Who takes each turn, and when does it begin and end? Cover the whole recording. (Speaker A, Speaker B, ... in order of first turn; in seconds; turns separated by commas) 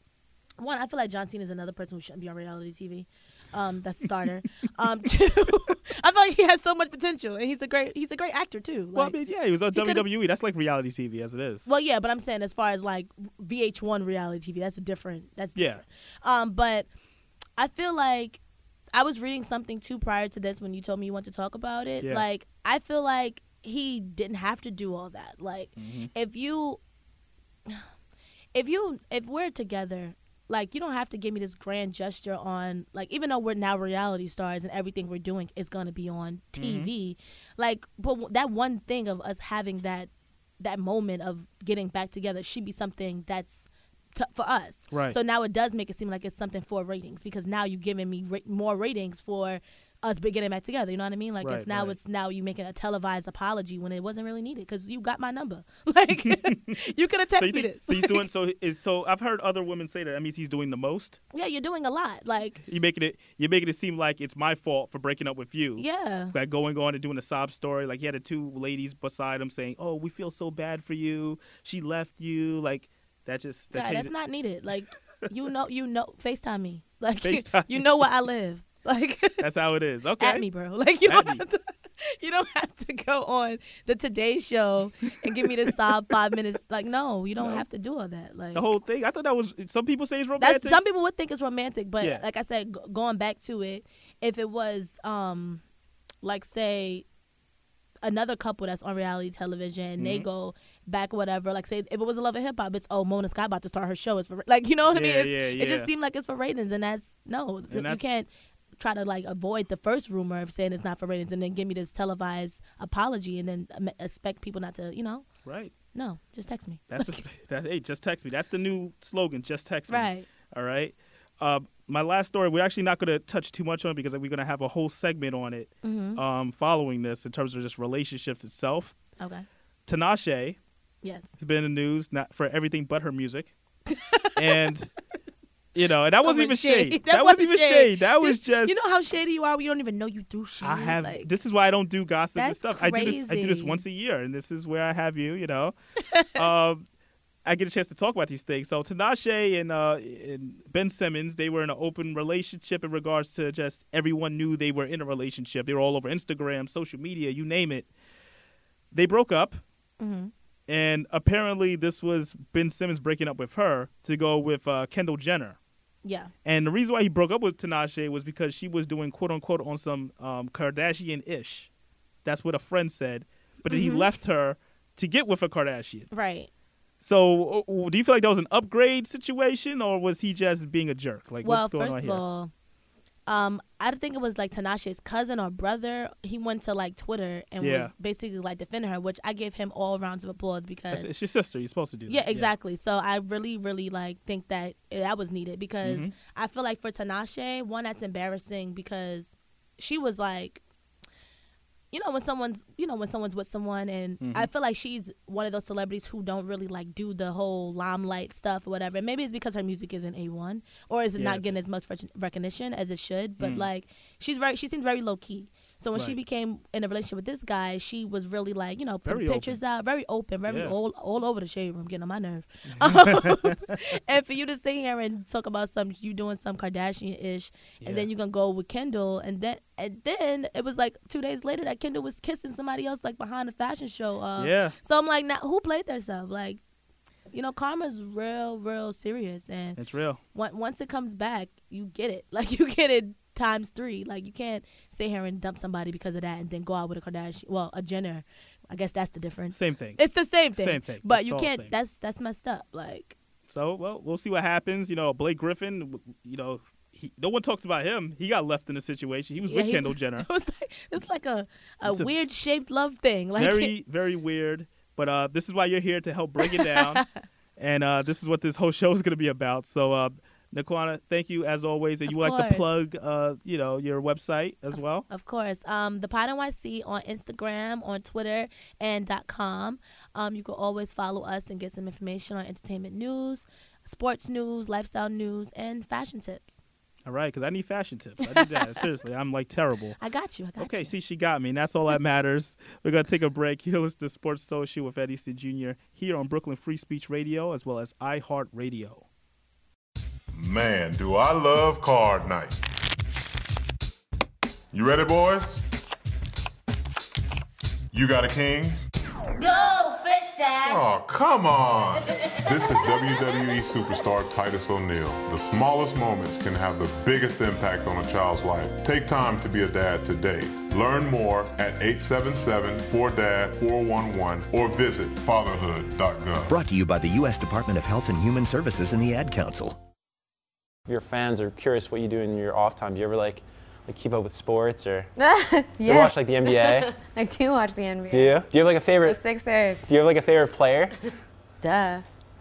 Speaker A: 0.6-9.2, Speaker B: 8.9-11.7, Speaker A: 9.7-10.0, Speaker A: 11.7-16.9, Speaker B: 15.5-15.8, Speaker A: 17.6-18.4, Speaker A: 18.9-26.8, Speaker B: 25.8-26.1, Speaker A: 28.5-58.2, Speaker B: 36.5-36.9, Speaker B: 44.9-45.2, Speaker B: 51.4-52.0, Speaker B: 56.2-56.8, Speaker B: 57.4-61.2, Speaker A: 61.3-62.6, Speaker B: 62.6-74.1, Speaker A: 65.8-66.3, Speaker A: 73.7-79.4, Speaker B: 77.2-78.0, Speaker B: 79.4-80.5, Speaker A: 80.2-88.7, Speaker B: 81.0-81.4, Speaker B: 85.4-86.0, Speaker B: 87.4-87.6, Speaker B: 88.5-90.9, Speaker A: 90.4-95.6, Speaker A: 96.2-97.0, Speaker A: 98.0-115.2, Speaker B: 100.0-100.3, Speaker B: 104.9-105.9, Speaker B: 107.7-108.0, Speaker B: 115.4-115.7, Speaker A: 115.9-117.2, Speaker B: 116.9-128.9, Speaker A: 119.9-120.3, Speaker A: 125.8-126.2, Speaker A: 129.2-129.4, Speaker B: 129.9-130.6, Speaker A: 131.0-131.3, Speaker B: 131.4-133.5, Speaker A: 133.9-134.7, Speaker B: 134.3-134.9, Speaker B: 135.7-139.1, Speaker A: 136.2-141.3, Speaker B: 140.6-145.7, Speaker A: 142.3-143.8, Speaker A: 146.1-146.4, Speaker B: 146.3-146.8, Speaker B: 147.4-157.9, Speaker B: 158.9-159.6, Speaker A: 160.0-160.3, Speaker B: 160.7-165.6, Speaker A: 166.0-166.3, Speaker B: 166.4-171.7, Speaker B: 172.2-176.1, Speaker A: 173.7-174.1, Speaker A: 176.1-176.5, Speaker B: 177.0-182.2, Speaker A: 181.4-182.5, Speaker A: 183.3-191.1, Speaker B: 187.6-187.9, Speaker B: 190.9-192.5, Speaker A: 192.1-200.6, Speaker B: 195.8-196.1, Speaker A: 201.9-236.6, Speaker B: 204.2-204.5, Speaker B: 211.2-211.6, Speaker B: 213.4-213.7, Speaker B: 219.1-219.6, Speaker B: 220.5-220.7, Speaker B: 222.7-223.8, Speaker B: 227.8-228.1, Speaker B: 234.4-234.8, Speaker A: 237.3-239.8, Speaker B: 239.8-240.2, Speaker A: 240.3-253.2, Speaker B: 249.5-251.7, Speaker B: 253.5-260.3, Speaker A: 259.4-263.7, Speaker B: 261.9-262.1, Speaker B: 263.4-267.0, Speaker A: 266.4-267.1, Speaker B: 267.6-275.1, Speaker A: 272.1-272.8, Speaker A: 275.1-286.6, Speaker B: 287.1-290.0, Speaker A: 288.2-288.8, Speaker A: 290.0-290.9, Speaker B: 290.6-299.1, Speaker C: 300.3-302.6, Speaker C: 304.7-305.6, Speaker C: 307.9-308.8, Speaker C: 310.5-326.6, Speaker D: 326.5-329.8, Speaker E: 330.9-335.1, Speaker F: 335.2-339.9, Speaker E: 335.8-336.9, Speaker E: 338.1-339.2, Speaker E: 339.9-340.9, Speaker F: 341.6-342.0